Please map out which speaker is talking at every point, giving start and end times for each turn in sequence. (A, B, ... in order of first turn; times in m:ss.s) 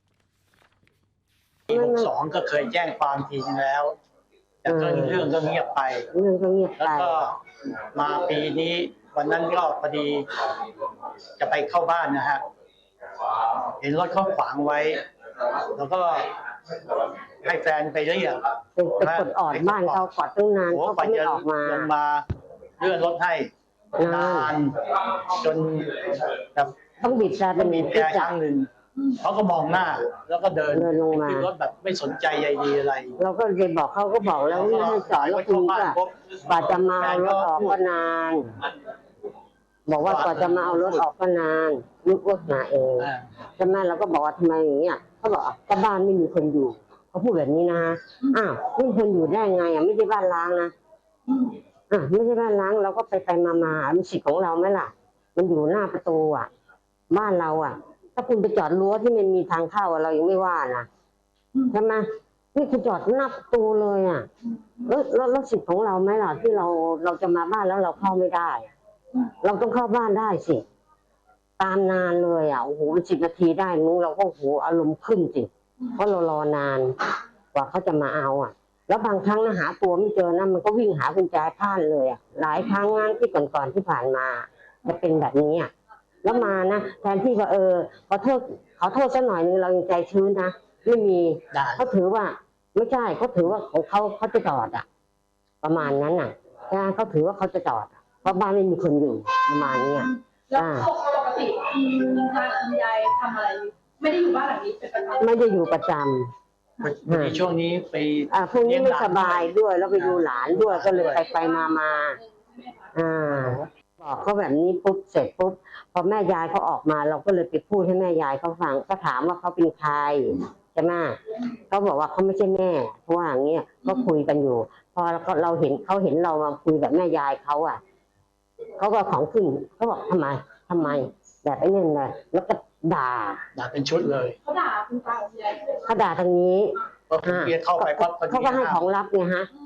0:01.7-0:04.0 A
0:01.7-0:02.1 B
0:04.6-0:06.1 A
0:04.7-0:05.3 B
0:06.1-0:07.2 B
0:06.8-0:07.4 A
0:07.9-0:10.5 A
0:11.4-0:12.4 A
0:13.3-0:15.0 A
0:15.6-0:16.3 A
0:17.4-0:20.1 A
0:18.8-0:21.9 B
0:20.7-0:22.2 A
0:22.8-0:23.5 A
0:24.0-0:24.5 B
0:24.0-0:26.7 A
0:27.0-0:28.3 B
0:27.5-0:33.2 A
0:30.7-0:31.5 B
0:33.2-0:38.5 B
0:34.4-0:37.8 A
0:39.9-0:50.7 B
0:40.0-0:41.0 A
0:43.0-0:43.3 A
0:51.9-0:56.5 B
0:57.1-1:00.9 B
1:01.7-1:04.3 B
1:04.8-1:08.7 B
1:09.4-1:10.6 B
1:11.6-1:16.9 B
1:17.5-1:25.7 B
1:26.2-1:34.8 B
1:31.5-1:31.9 A
1:35.6-1:40.9 B
1:39.8-1:45.2 C
1:45.2-1:46.3 B
1:46.8-1:51.2 A
1:47.1-1:47.4 B
1:48.3-1:52.2 B
1:52.9-2:01.2 B
1:53.3-1:53.7 A
2:01.7-2:07.8 B
2:08.8-2:13.4 B
2:13.5-2:14.4 A
2:14.5-2:15.8 C
2:15.8-2:19.5 B
2:17.1-2:18.8 A